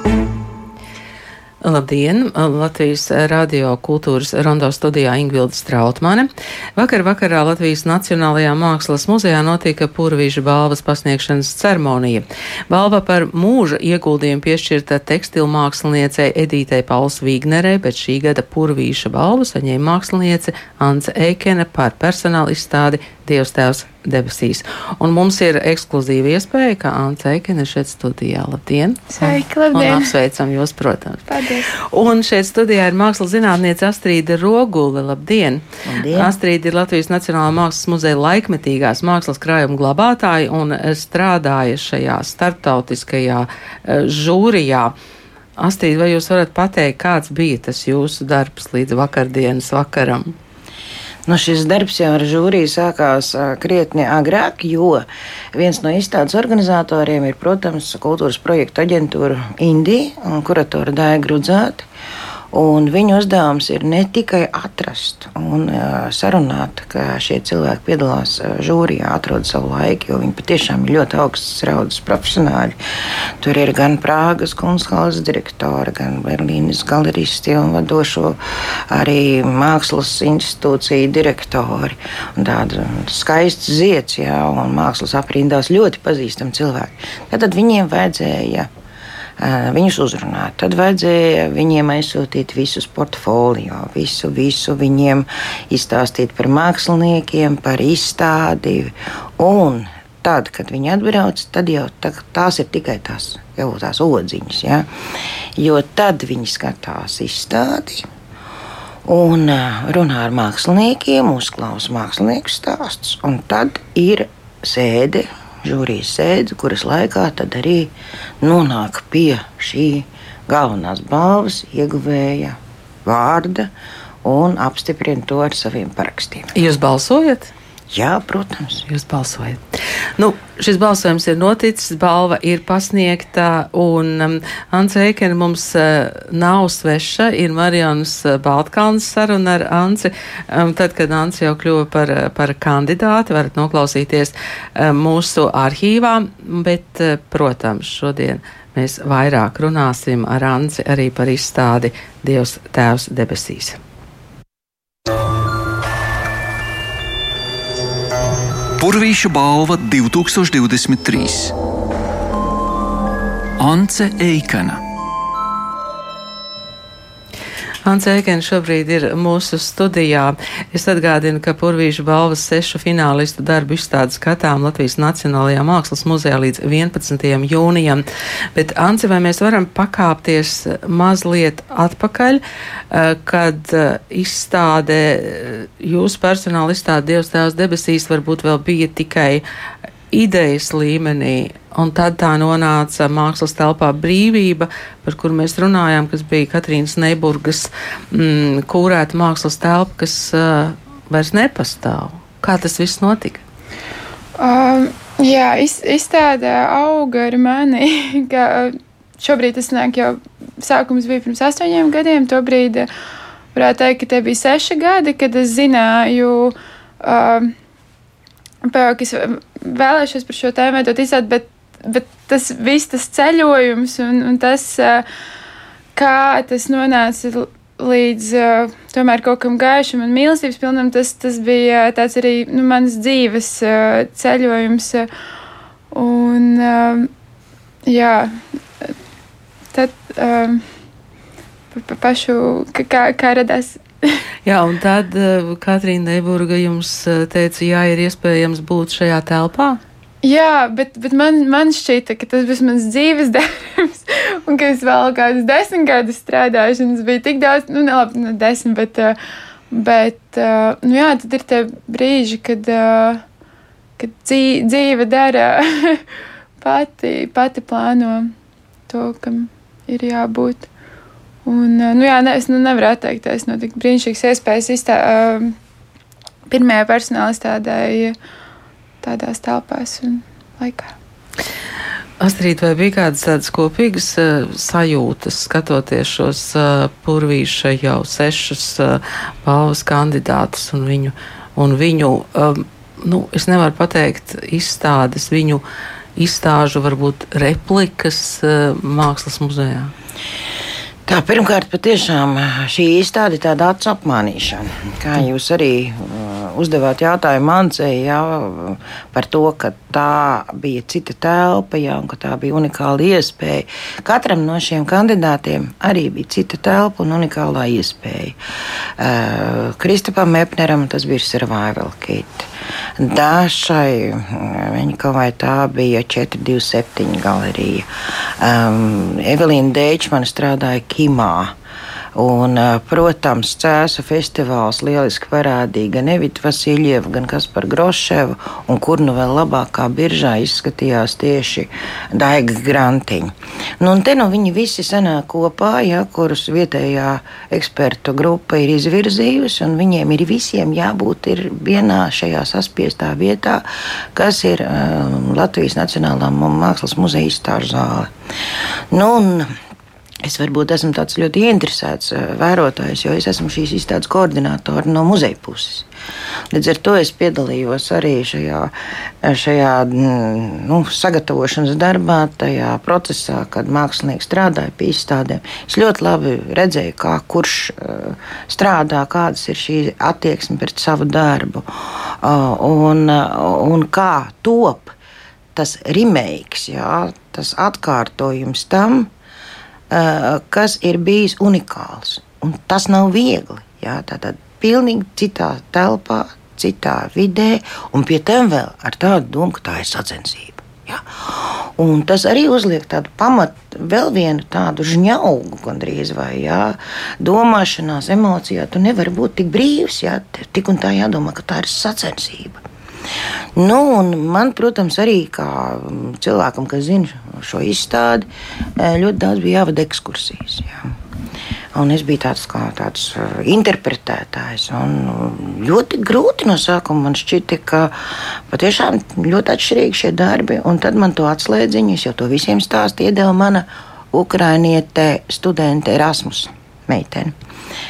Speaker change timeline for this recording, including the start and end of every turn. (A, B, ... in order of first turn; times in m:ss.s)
0:01.6-0:31.2 A
0:29.1-0:30.1 B
0:31.3-0:31.7 B
0:31.8-0:44.9 A
0:35.8-0:36.3 C
0:45.6-0:50.3 A
0:51.2-1:01.9 C
1:02.5-1:12.8 C
1:13.4-1:18.4 C
1:18.9-1:28.7 C
1:29.4-1:44.9 C
1:45.6-1:48.1 C
1:49.0-2:03.7 C
2:04.2-2:06.5 C
2:06.5-2:07.5 A
2:07.9-2:08.9 C
2:08.9-2:09.6 A
2:10.2-2:33.8 A
2:38.8-2:41.5 D
2:43.6-2:44.8 D
2:47.8-3:09.4 A
3:10.1-3:23.4 A
3:24.4-3:32.9 B
3:33.5-3:37.5 B
3:38.6-3:45.0 B
3:45.9-3:55.1 B
3:55.9-3:57.1 B
3:57.8-3:58.9 B
3:59.7-4:00.6 B
4:01.7-4:04.2 B
4:04.4-4:09.8 A
4:10.2-4:19.2 B
4:19.7-4:23.2 B
4:24.0-4:26.0 B
4:26.6-4:28.3 B
4:28.9-4:30.7 B
4:31.4-4:35.5 B
4:36.5-4:38.1 B
4:39.0-4:40.9 B
4:42.2-4:55.6 A
4:56.2-4:59.9 A
5:01.1-5:18.4 C
5:19.0-5:31.5 C
5:32.1-5:58.1 C
5:58.9-5:59.5 C
6:00.2-6:05.9 C
6:06.5-6:08.7 C
6:09.2-6:24.9 C
6:25.5-6:29.1 C
6:29.9-6:52.6 C
6:53.6-7:00.9 C
7:01.7-7:17.3 C